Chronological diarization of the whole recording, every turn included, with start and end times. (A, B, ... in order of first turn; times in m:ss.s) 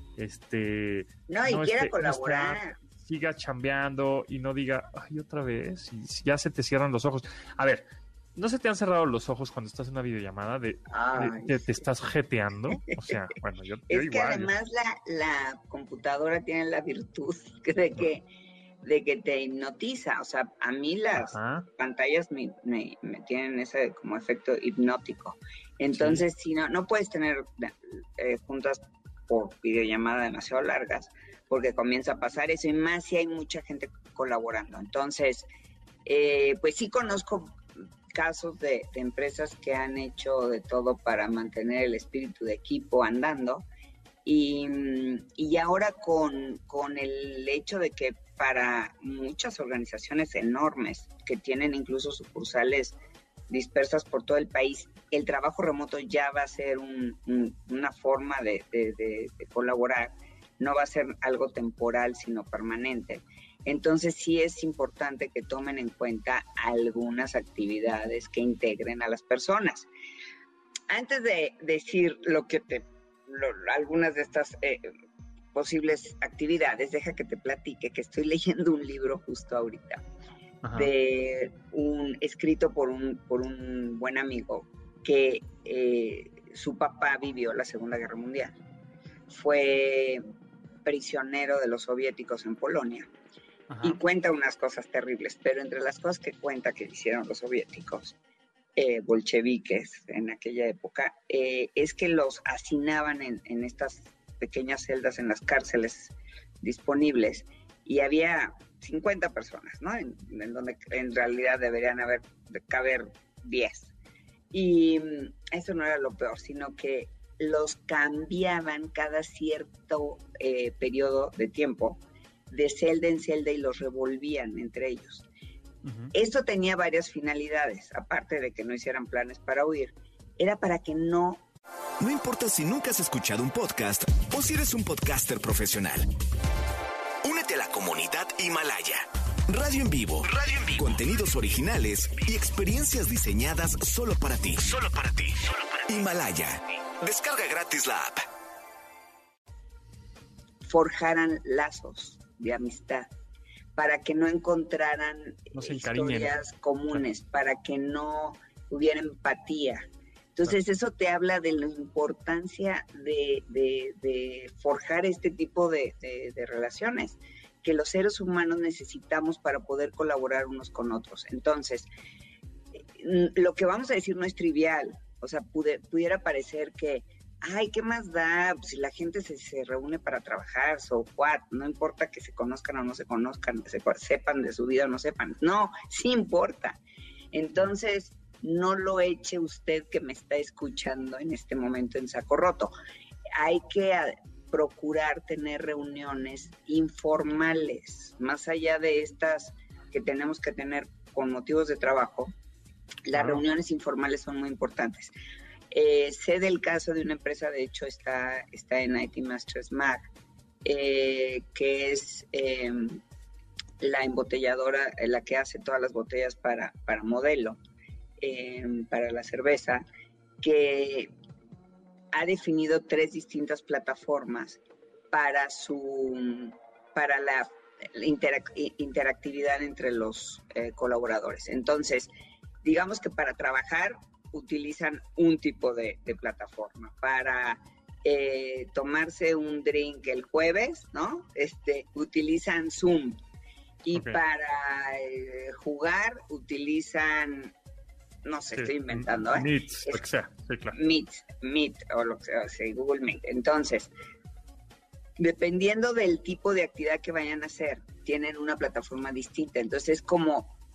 0:00.2-0:14.5 A
0:01.3-0:02.8 B
0:10.9-0:11.6 B
0:13.9-0:18.2 B
0:18.8-0:35.5 B
0:21.2-0:21.7 A
0:25.9-0:26.2 A
0:36.0-0:43.6 B
0:44.2-0:53.0 B
0:53.5-1:09.9 B
1:10.9-1:14.9 B
1:15.5-1:20.0 B
1:20.6-1:20.9 A
1:20.7-1:28.6 B
1:29.3-1:30.2 B
1:30.8-1:33.1 B
1:33.7-1:34.0 A
1:33.8-1:38.2 B
1:38.8-1:53.9 B
1:54.5-2:05.2 B
2:05.8-2:06.1 A
2:06.1-2:11.4 B
2:12.0-2:16.1 C
2:17.2-2:28.2 C
2:30.6-2:33.1 B
2:33.8-2:39.8 B
2:35.5-2:36.4 A
2:40.4-2:51.9 B
2:53.0-3:06.8 B
3:07.3-3:12.7 B
3:13.4-3:22.3 B
3:23.1-3:25.1 B
3:23.1-3:23.4 A
3:25.7-3:30.0 B
3:30.6-3:33.0 B
3:33.8-3:37.6 B
3:38.2-3:39.8 B
3:40.4-3:41.1 B
3:42.1-3:44.6 B
3:45.1-3:52.1 B
3:52.6-4:03.2 B
4:03.8-4:07.5 B
4:03.9-4:04.2 A
4:08.2-4:10.0 B
4:08.5-4:10.8 A
4:10.7-4:13.9 B
4:15.2-4:20.5 B